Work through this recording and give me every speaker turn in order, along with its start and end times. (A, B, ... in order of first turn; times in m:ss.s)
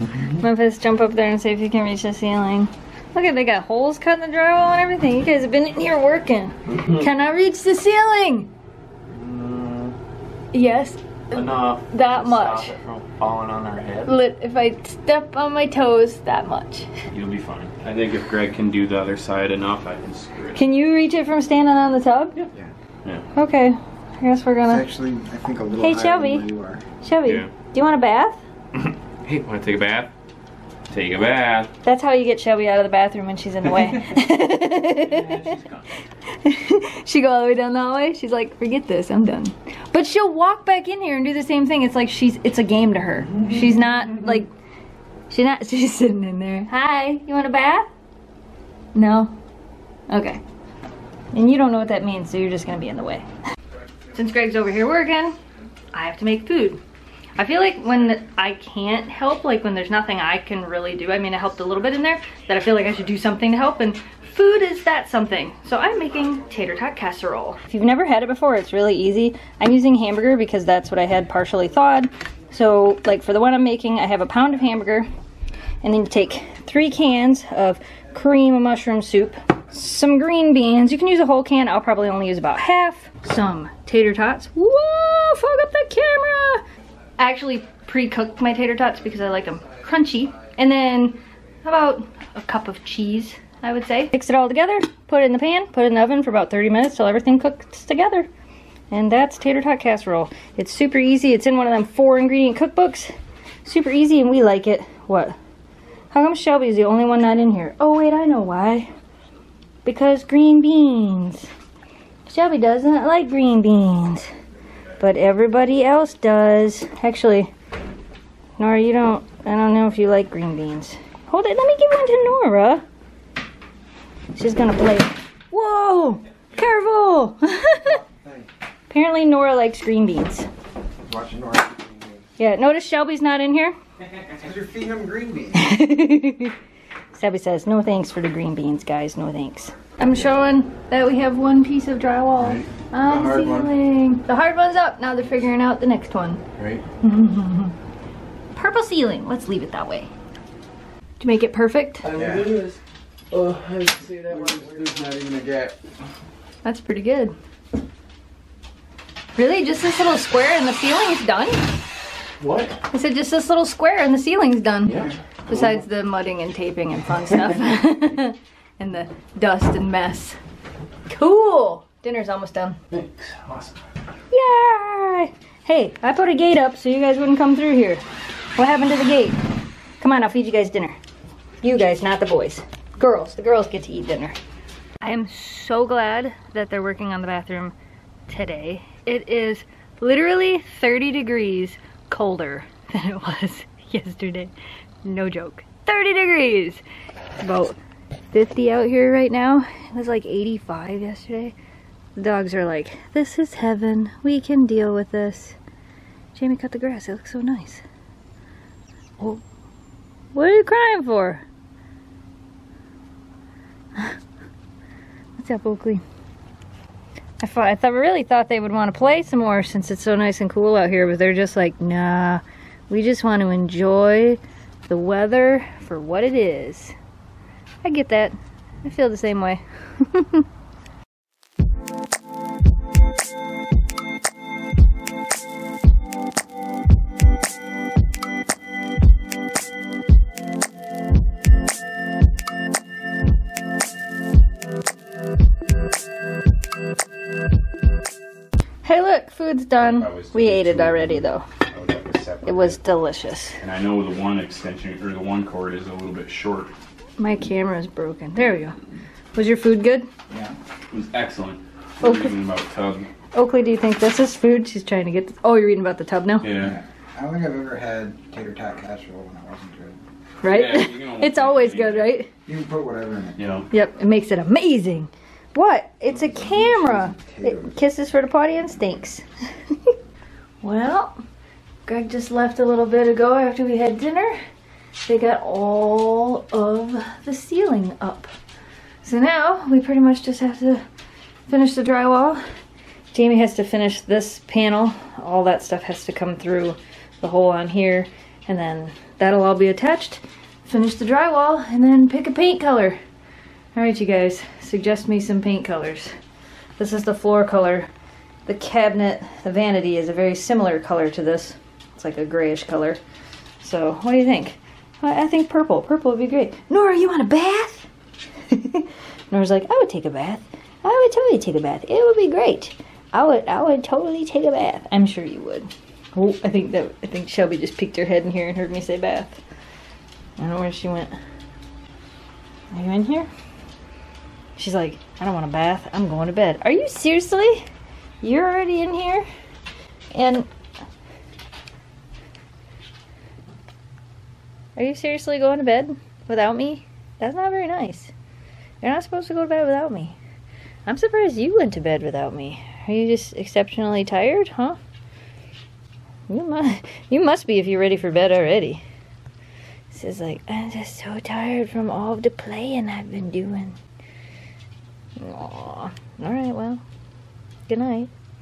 0:00.2-0:08.5 A
0:09.1-0:09.9 B
0:10.5-0:12.8 A
0:11.3-0:14.1 B
0:14.0-0:16.9 A
0:17.1-0:20.6 B
0:20.6-0:22.4 A
0:23.3-0:24.8 A
0:24.6-0:26.8 C
0:25.8-0:26.5 A
0:27.0-0:28.4 A
0:27.2-0:27.5 B
0:29.2-0:30.1 B
0:30.9-0:31.7 B
0:31.8-0:35.6 A
0:35.0-0:35.8 B
0:36.2-0:44.5 A
0:45.3-0:47.9 A
0:48.9-0:49.3 A
0:50.1-0:50.4 A
0:51.3-0:53.2 A
0:54.1-0:55.4 A
0:55.9-0:56.8 A
0:57.4-1:15.1 A
1:15.8-1:26.6 A
1:27.2-1:38.3 A
1:38.9-1:43.1 A
1:43.6-1:45.4 A
1:46.1-1:48.9 A
1:49.8-1:51.5 A
1:52.2-1:54.3 A
1:55.0-1:57.5 A
1:58.6-2:02.8 A
2:04.3-2:08.0 A
2:07.8-2:08.5 C
2:08.9-2:10.5 A
2:11.0-2:12.3 C
2:12.4-2:13.8 A
2:14.4-2:15.7 C
2:15.6-2:16.6 A
2:17.1-2:26.4 A
2:23.0-2:23.7 C
2:26.6-2:26.8 B
2:27.0-2:27.7 A
2:28.5-2:30.1 A
2:31.2-2:32.1 A
2:32.0-2:32.8 B
2:32.2-2:32.5 C
2:33.3-2:35.1 B
2:34.2-2:35.8 C
2:36.6-2:37.4 A
2:39.4-2:41.7 A
2:42.4-2:42.8 B
2:42.9-2:50.4 A
2:44.9-2:45.1 B
2:51.1-2:52.8 A
2:52.9-2:53.8 B
2:54.3-2:58.0 A
2:58.6-2:59.4 A
3:00.0-3:01.0 A
3:01.6-3:04.4 A
3:05.0-3:07.8 A
3:08.3-3:16.8 A
3:17.4-3:17.8 A
3:18.3-3:21.6 A
3:22.2-3:25.6 A
3:26.4-3:27.8 A
3:30.3-3:31.4 A
3:35.4-3:36.0 A
3:37.4-3:47.0 A
3:47.8-3:50.4 A
4:08.8-4:11.4 A
4:09.8-4:12.8 B
4:12.4-4:13.6 A
4:13.6-4:16.7 B
4:17.2-4:18.8 A
4:19.3-4:20.1 A
4:20.3-4:20.6 C
4:20.9-4:23.1 B
4:22.0-4:22.3 A
4:23.3-4:26.5 A
4:26.4-4:26.8 B
4:26.5-4:30.0 C
4:30.4-4:32.3 A
4:30.4-4:32.2 B
4:32.4-4:33.6 C
4:33.4-4:33.7 B
4:33.7-4:39.2 A
4:36.1-4:37.7 C
4:40.6-4:41.2 A
4:41.8-4:44.4 A
4:45.0-4:48.3 A
4:49.0-4:50.8 A
4:51.5-4:52.4 A
4:53.1-5:03.0 A
5:03.8-5:06.2 A
5:06.8-5:07.9 A
5:08.4-5:13.0 A
5:13.6-5:17.9 A
5:18.5-5:29.4 A
5:30.4-5:31.2 A
5:32.7-5:33.3 A
5:34.6-5:37.7 A
5:38.2-5:39.3 A
5:40.1-5:40.5 A
5:44.8-5:48.1 A
5:48.8-5:50.2 A
5:50.8-5:54.8 A
5:56.3-5:58.8 A
5:59.9-6:03.8 A
6:05.2-6:06.8 A
6:07.7-6:08.1 A